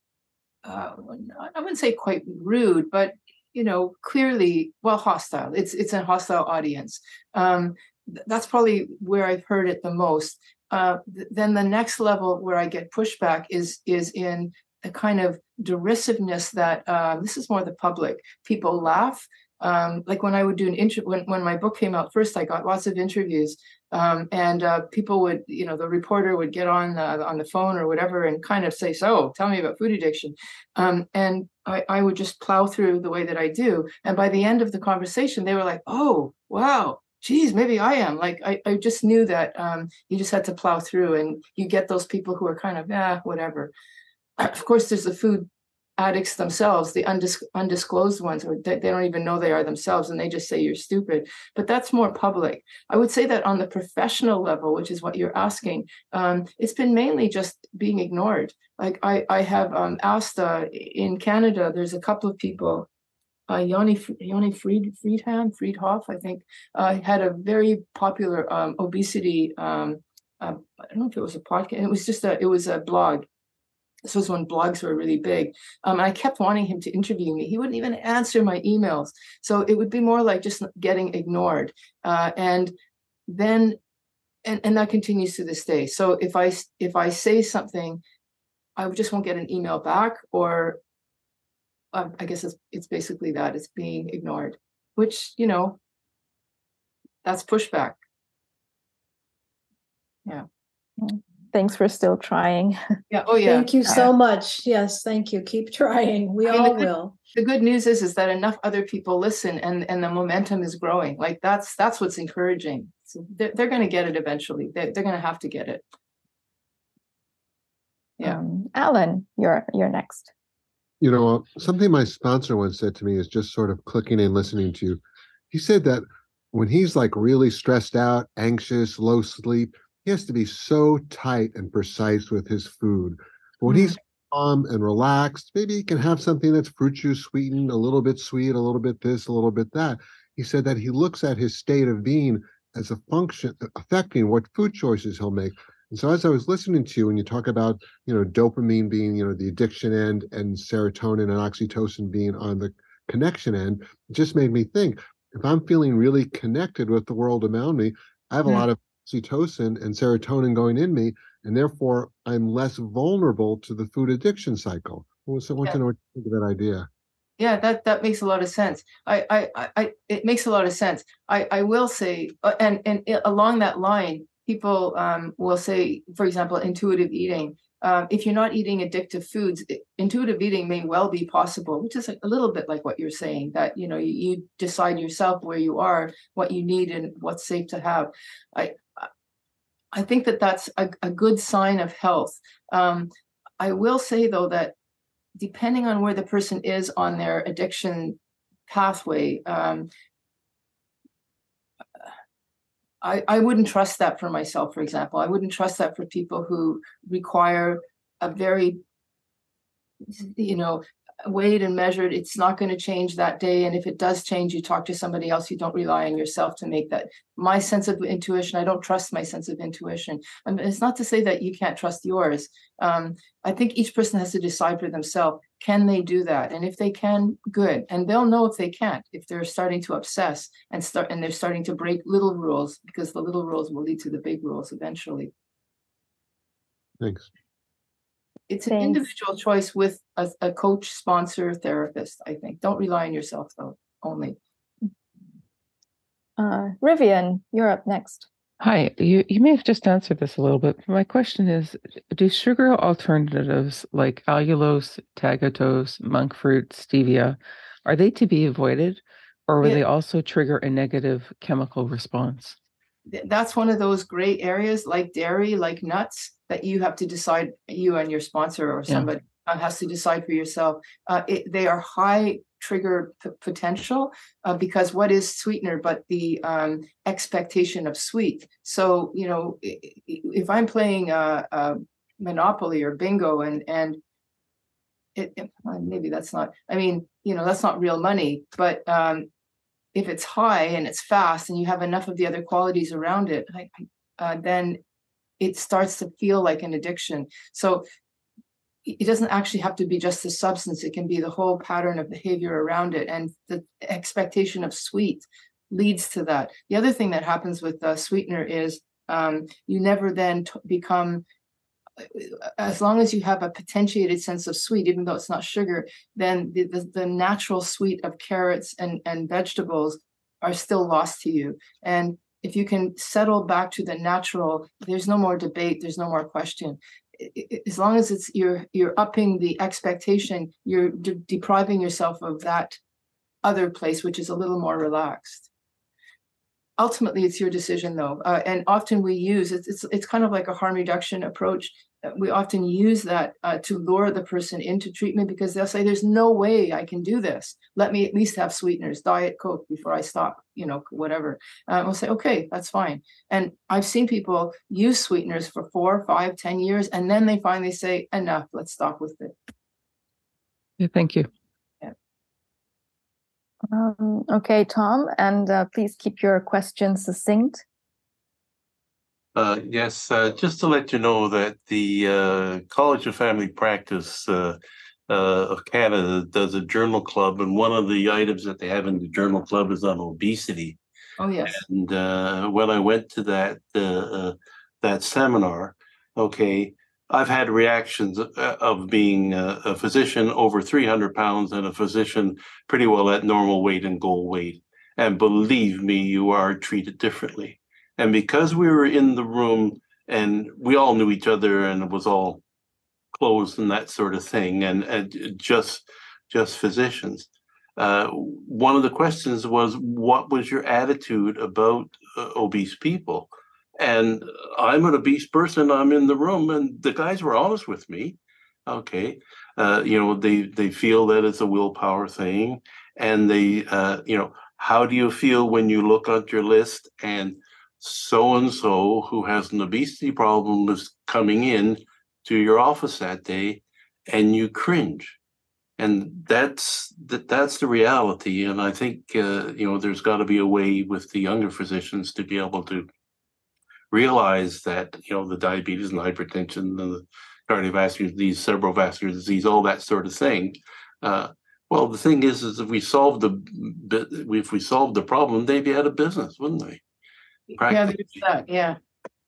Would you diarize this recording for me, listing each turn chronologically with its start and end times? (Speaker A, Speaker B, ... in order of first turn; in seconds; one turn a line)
Speaker A: 0.6-43.7
Speaker A: 44.4-62.9
Speaker A: 63.5-73.2
Speaker A: 74.0-82.7
Speaker A: 83.3-83.8
Speaker A: 84.4-88.0
Speaker A: 88.8-90.8
Speaker A: 91.9-95.8
Speaker A: 97.2-98.0
Speaker B: 101.0-102.8
Speaker A: 103.1-104.1
Speaker C: 103.4-107.2
Speaker A: 106.5-115.8
Speaker B: 118.2-120.3
Speaker D: 121.0-166.9
Speaker A: 167.4-189.1
Speaker A: 189.9-194.7
Speaker A: 195.4-198.2
Speaker A: 198.7-199.9
Speaker A: 203.0-208.8
Speaker A: 210.0-235.3
Speaker D: 237.0-237.3
Speaker A: 238.5-244.4
Speaker B: 238.7-239.0
Speaker B: 246.4-248.3
Speaker E: 248.6-262.5
Speaker A: 263.1-284.0
Speaker A: 285.1-289.3
Speaker A: 289.9-294.8
Speaker A: 295.4-297.8
Speaker A: 298.8-311.2
Speaker A: 312.0-332.8
Speaker A: 333.4-335.5
Speaker A: 336.8-359.3
Speaker E: 360.8-361.2
Speaker B: 363.7-367.6
Speaker F: 369.4-374.6
Speaker F: 375.1-380.8
Speaker A: 381.2-381.6
Speaker F: 381.5-402.4
Speaker F: 403.1-435.1
Speaker F: 435.8-442.9
Speaker F: 443.9-456.8
Speaker F: 457.6-458.2
Speaker A: 457.6-458.8